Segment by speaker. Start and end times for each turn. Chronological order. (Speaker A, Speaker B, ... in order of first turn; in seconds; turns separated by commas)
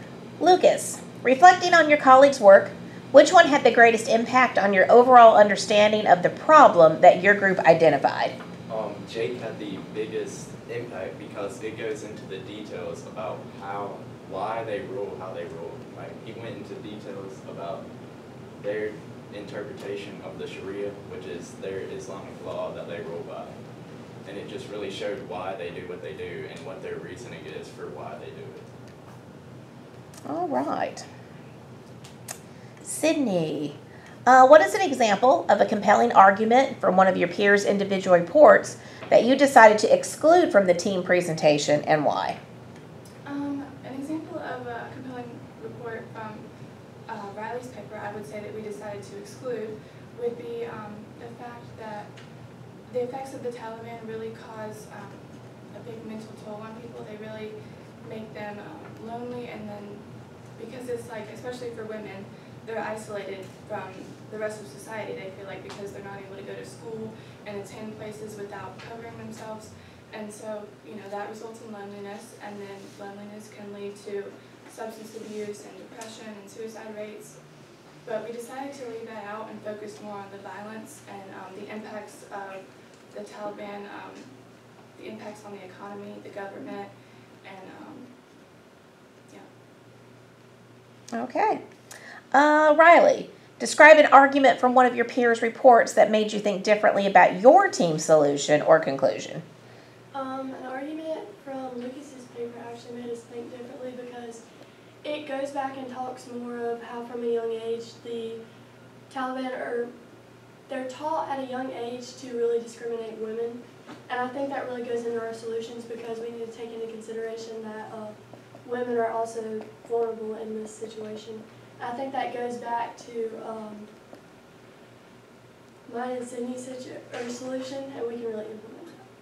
Speaker A: 0.4-8.3, Speaker B: 8.7-17.9, Speaker B: 18.6-23.6, Speaker B: 24.2-28.6, Speaker A: 30.2-31.1, Speaker A: 32.8-42.4, Speaker C: 43.2-46.5, Speaker C: 47.1-52.1, Speaker C: 52.9-60.0, Speaker C: 60.5-77.5, Speaker C: 78.0-84.3, Speaker C: 84.9-86.9, Speaker C: 87.4-88.1, Speaker A: 91.1-91.6, Speaker A: 92.3-99.4, Speaker D: 100.1-104.4, Speaker D: 105.0-108.4, Speaker D: 109.1-109.9, Speaker D: 110.7-123.9, Speaker D: 125.8-129.0